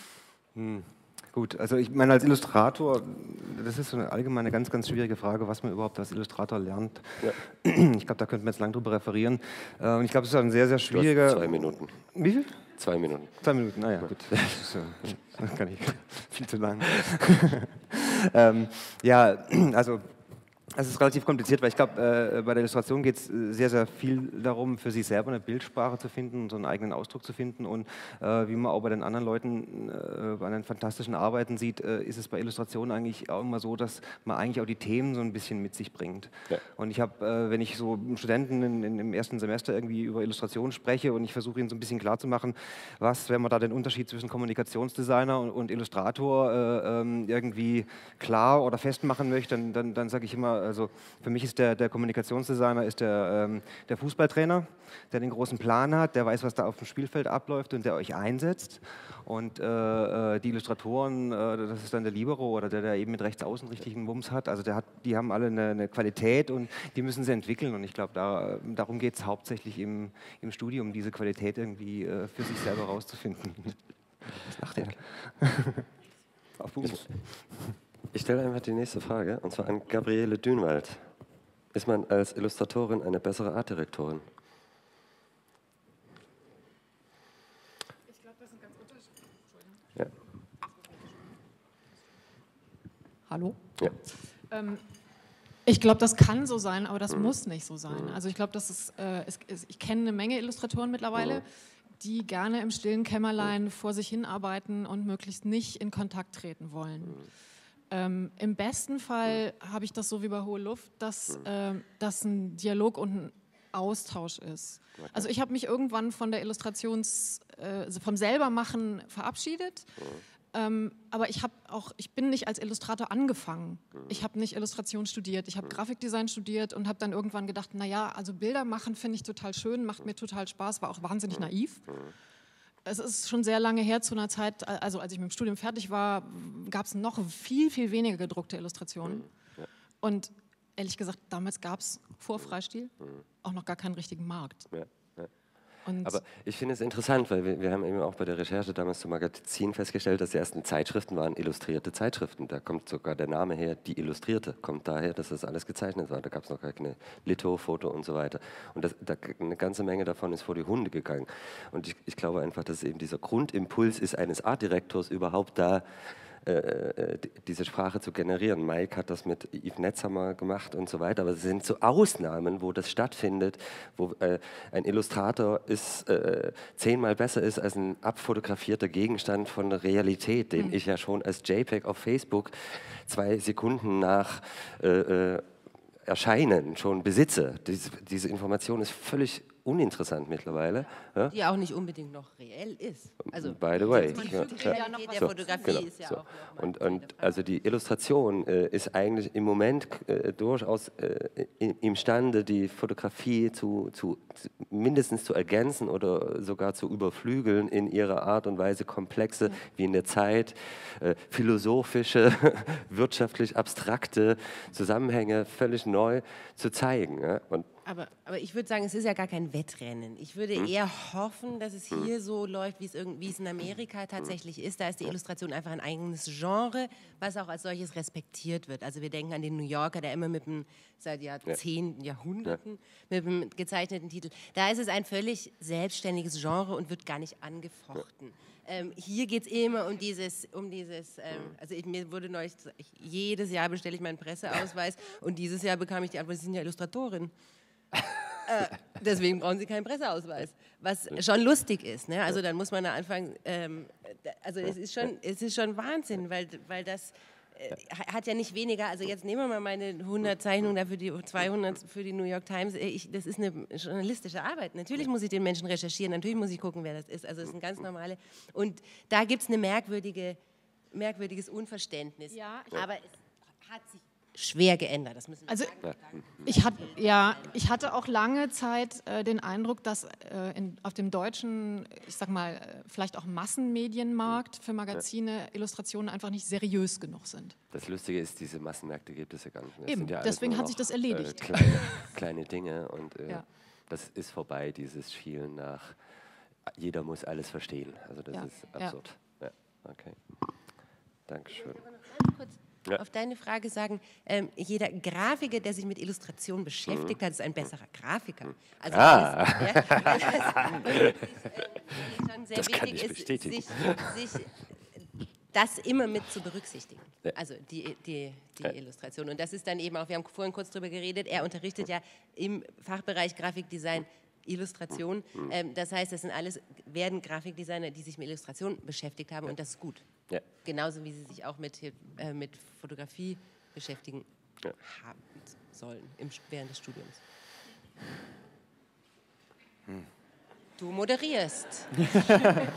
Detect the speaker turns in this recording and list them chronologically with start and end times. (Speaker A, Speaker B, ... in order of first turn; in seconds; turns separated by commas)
Speaker A: 0.5-12.6, Speaker B: 10.9-12.1, Speaker B: 12.7-13.4, Speaker A: 13.3-20.1, Speaker B: 14.0-14.7, Speaker A: 20.7-75.8, Speaker B: 74.5-75.0, Speaker A: 76.6-77.7, Speaker B: 76.8-77.1, Speaker B: 78.1-81.0, Speaker B: 81.7-84.2, Speaker C: 88.1-89.1, Speaker C: 93.3-93.6, Speaker C: 94.5-94.8, Speaker C: 95.7-101.5, Speaker B: 101.2-101.4, Speaker C: 102.0-107.3, Speaker C: 107.9-119.9, Speaker B: 115.0-115.3, Speaker C: 120.5-132.0, Speaker B: 124.0-124.2, Speaker B: 131.3-132.1, Speaker C: 132.8-139.3, Speaker B: 139.1-139.7, Speaker C: 140.0-144.7, Speaker B: 144.7-145.3, Speaker C: 145.8-146.2, Speaker B: 146.0-165.8, Speaker B: 166.4-185.4, Speaker B: 186.0-191.3, Speaker D: 191.3-197.4, Speaker B: 193.3-217.7, Speaker C: 193.9-195.8, Speaker D: 217.8-247.3, Speaker D: 248.5-270.4, Speaker D: 270.9-273.1, Speaker C: 272.3-272.8, Speaker D: 273.6-277.5, Speaker C: 275.5-275.7, Speaker C: 276.4-287.6, Speaker B: 287.7-296.0, Speaker C: 289.9-292.1, Speaker B: 296.6-300.6, Speaker C: 298.3-299.0, Speaker B: 301.3-301.8, Speaker D: 301.7-314.5, Speaker B: 306.9-307.2, Speaker B: 308.9-311.2, Speaker B: 312.5-314.4, Speaker D: 315.5-334.3, Speaker D: 334.8-337.2, Speaker D: 340.8-341.9